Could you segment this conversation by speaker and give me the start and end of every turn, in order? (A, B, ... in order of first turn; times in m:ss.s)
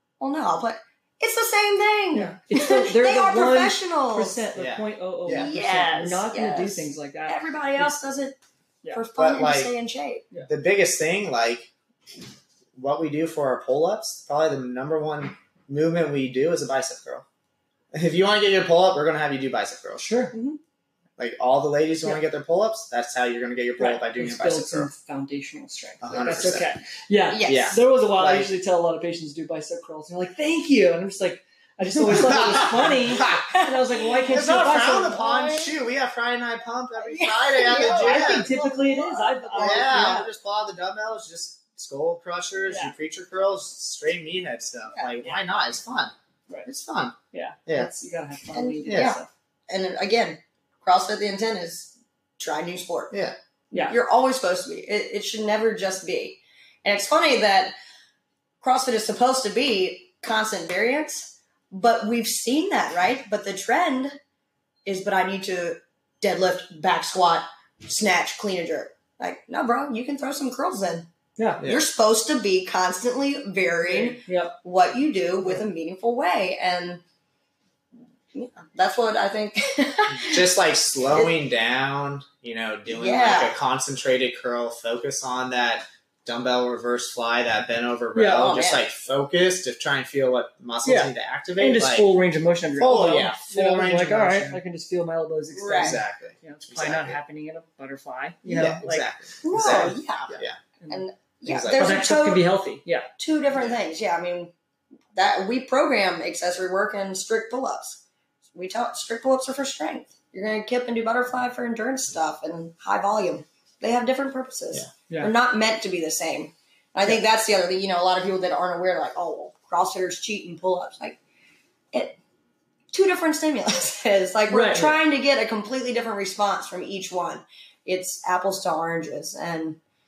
0:00.2-0:04.4 A
0:02.1-0:07.9 B
0:04.6-0:05.5 C
0:05.3-0:08.4 A
0:08.9-0:10.3 A
0:09.2-0:09.7 C
0:10.5-0:11.7 C
0:12.8-0:17.2 C
0:17.9-0:20.0 C
0:20.0-0:20.4 B
0:20.3-0:20.6 A
0:21.2-0:24.9 C
0:23.8-0:35.6 B
0:26.0-0:26.7 C
0:27.3-0:27.7 A
0:27.4-0:28.5 C
0:32.0-0:33.5 C
0:32.1-0:35.7 A
0:34.3-0:38.5 C
0:37.0-0:40.2 A
0:37.8-0:40.3 B
0:39.6-0:46.1 C
0:42.7-0:42.9 B
0:46.7-0:47.2 C
0:47.3-0:49.3 B
0:48.5-0:49.2 A
0:48.9-0:49.2 C
0:49.7-0:53.1 A
0:53.7-0:54.0 B
0:53.7-0:57.7 A
0:58.6-1:04.2 A
1:04.8-1:11.1 A
1:11.6-1:17.0 A
1:13.8-1:14.5 B
1:18.3-1:20.5 A
1:20.2-1:32.1 C
1:22.9-1:23.5 A
1:28.1-1:28.6 B
1:28.3-1:28.8 A
1:30.8-1:41.0 B
1:32.8-1:34.6 C
1:35.6-1:36.0 A
1:35.7-1:37.2 C
1:38.5-1:40.6 C
1:39.4-1:40.4 A
1:40.9-1:42.4 A
1:41.4-1:42.0 C
1:41.7-1:43.1 B
1:43.2-1:44.5 A
1:45.1-1:48.0 A
1:48.5-2:01.2 A
2:01.9-2:02.2 A
2:02.9-2:09.8 A
2:04.5-2:05.0 B